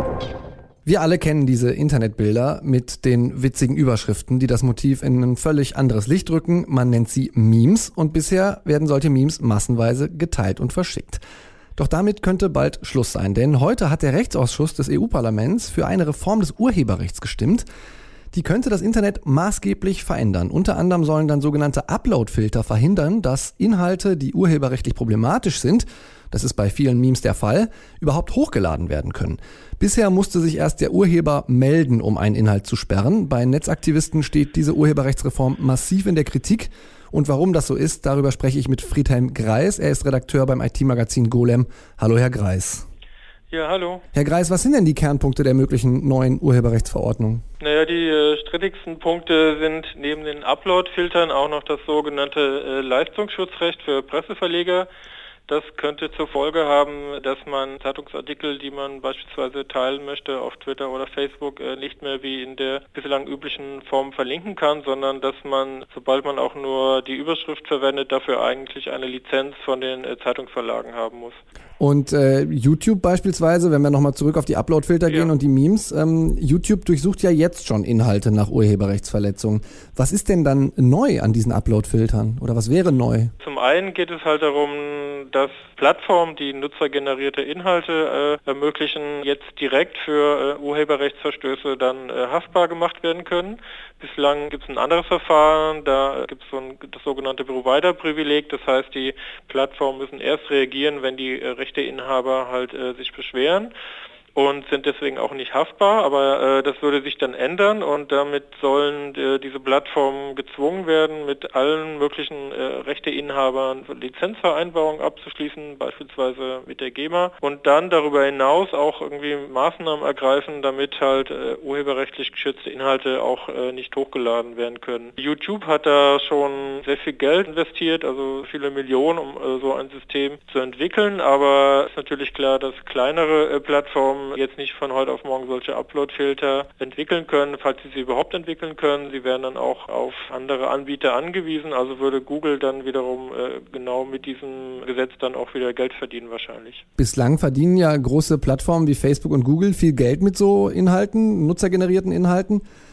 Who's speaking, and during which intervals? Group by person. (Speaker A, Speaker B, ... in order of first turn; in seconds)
Speaker A: 0.8-11.2, 11.8-17.6, 18.3-42.8, 44.1-47.4, 71.8-83.3, 147.0-152.6
Speaker B: 43.5-44.0, 47.6-54.9, 55.5-71.4, 75.1-75.3, 83.4-103.7, 104.3-146.8